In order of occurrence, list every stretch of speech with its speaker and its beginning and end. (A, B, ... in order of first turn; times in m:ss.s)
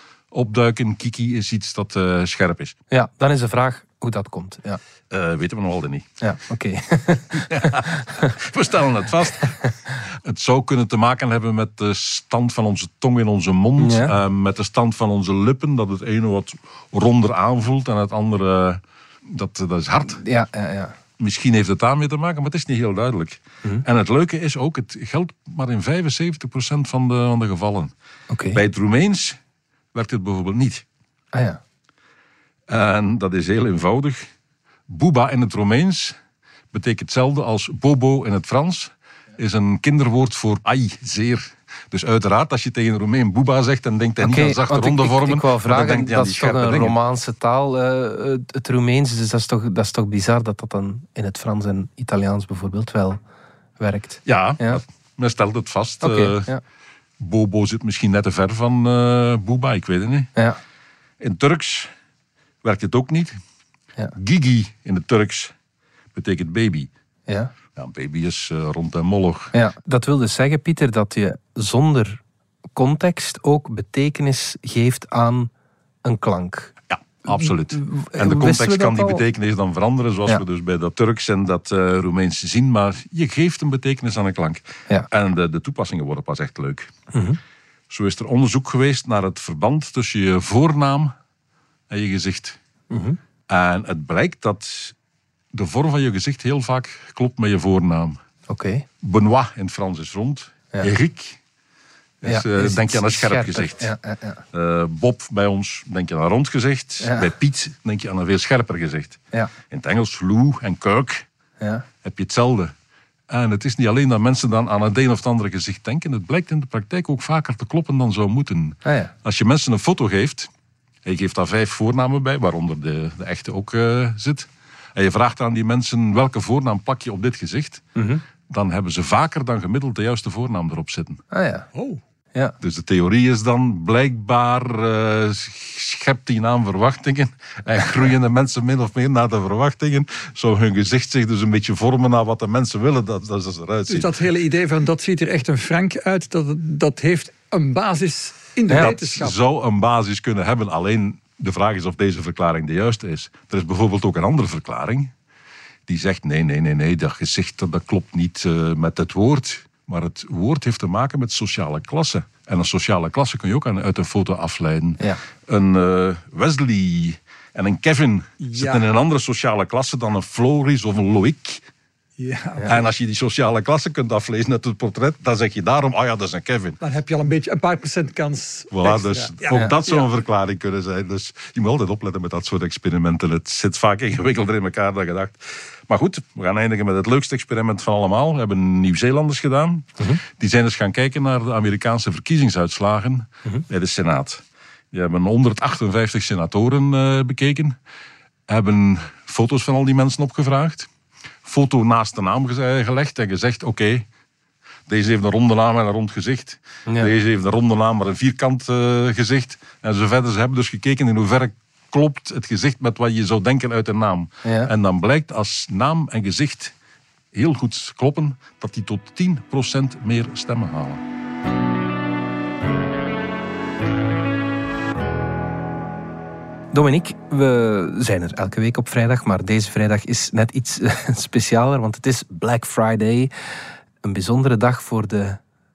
0:00.3-0:02.8 A
0:02.9-0:04.8 B
0:05.1-0:06.1 A
0:06.2-0:08.3 B
0:07.4-0:20.2 A
0:13.8-0:14.1 B
0:20.2-0:21.0 B
0:21.2-0:27.9 A
0:28.3-0:28.6 B
0:28.5-0:29.4 A
0:29.9-0:30.8 A
0:31.3-0:31.6 B
0:32.7-0:34.2 A
0:34.9-0:36.2 A
0:36.7-0:47.0 A
0:44.2-0:53.2 B
0:53.8-0:54.8 B
0:54.2-0:56.5 A
0:56.0-0:56.6 B
0:57.2-1:00.3 A
1:01.2-1:01.9 A
1:02.6-1:03.4 A
1:04.1-1:05.5 A
1:06.1-1:06.9 A
1:07.3-1:07.5 B
1:07.8-1:09.5 A
1:09.5-1:12.2 B
1:12.7-1:15.5 B
1:16.0-1:16.7 B
1:16.9-1:26.9 A
1:17.3-1:19.2 B
1:27.1-1:27.4 B
1:27.9-1:31.1 A
1:31.9-1:32.6 A
1:32.9-1:33.2 B
1:33.5-1:34.9 A
1:35.5-1:38.2 A
1:38.5-1:38.8 B
1:39.0-1:41.4 A
1:42.2-1:43.9 A
1:42.2-1:44.4 B
1:44.5-1:51.2 A
1:47.0-1:47.3 B
1:51.6-1:51.8 B
1:52.0-1:52.7 A
1:53.3-2:00.5 A
1:58.8-1:59.1 B
2:01.0-2:07.9 A
2:08.0-2:08.2 B
2:08.5-2:11.2 A
2:11.3-2:11.7 B
2:11.7-2:12.0 C
2:12.6-2:24.1 A
2:23.9-2:29.3 C
2:28.7-2:35.1 A
2:35.9-2:51.6 A
2:48.4-2:48.9 C
2:52.2-2:52.8 C
2:52.6-2:56.8 A
2:56.8-3:00.1 C
2:58.7-3:17.7 A
3:18.5-3:20.9 A
3:21.4-3:24.0 A
3:24.9-3:36.7 A
3:26.9-3:27.1 B
3:34.4-3:34.7 B
3:37.3-3:41.0 A
3:46.7-3:53.3 B
3:54.0-3:55.4 B